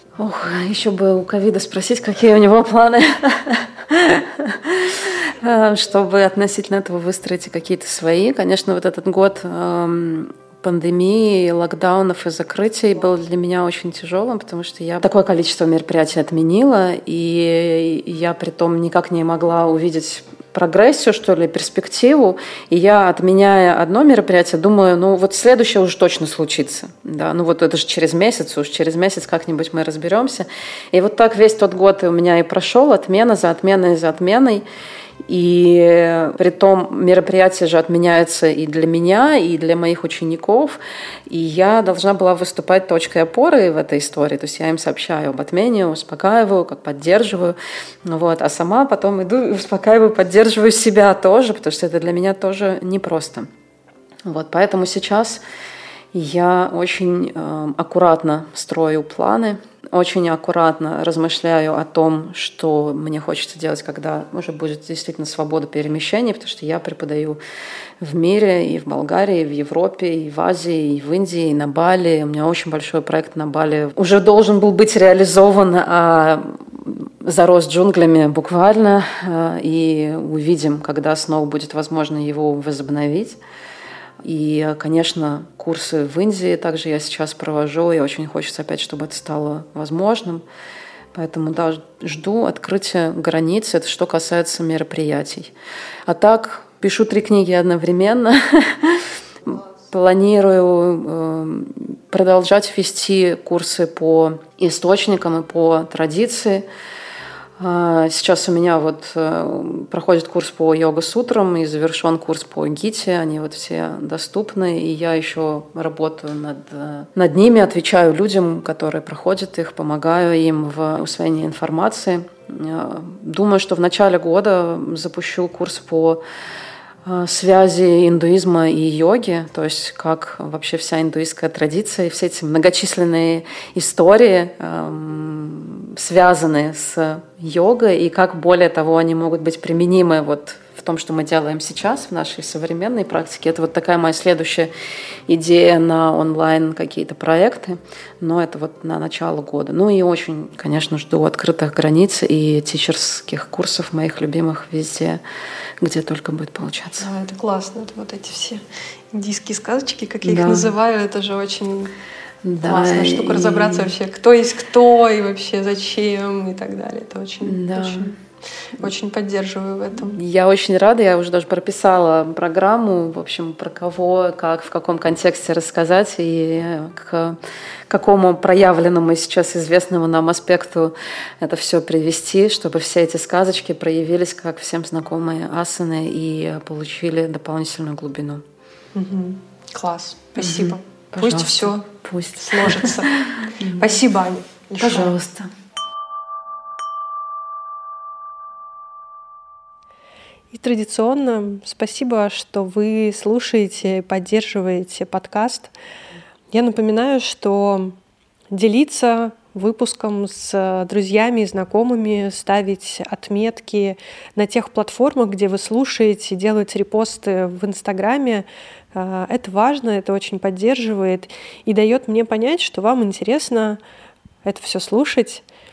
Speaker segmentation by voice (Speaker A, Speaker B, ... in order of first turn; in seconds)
Speaker A: 0.2-34.6, 35.2-53.5, 54.2-55.4, 56.1-67.4, 68.0-83.4, 84.2-90.4, 91.1-95.5, 96.0-106.6, 107.6-126.2, 127.0-144.7, 145.3-155.2, 155.8-157.1, 160.2-160.7, 162.4-163.9, 167.4-168.1, 169.9-177.4, 177.9-188.4, 190.4-194.0, 194.8-195.5
Speaker B: 157.0-161.9, 162.6-168.1, 168.7-170.2, 188.9-191.8, 192.4-195.2, 200.5-205.7, 206.5-208.0, 208.5-223.8, 224.4-225.4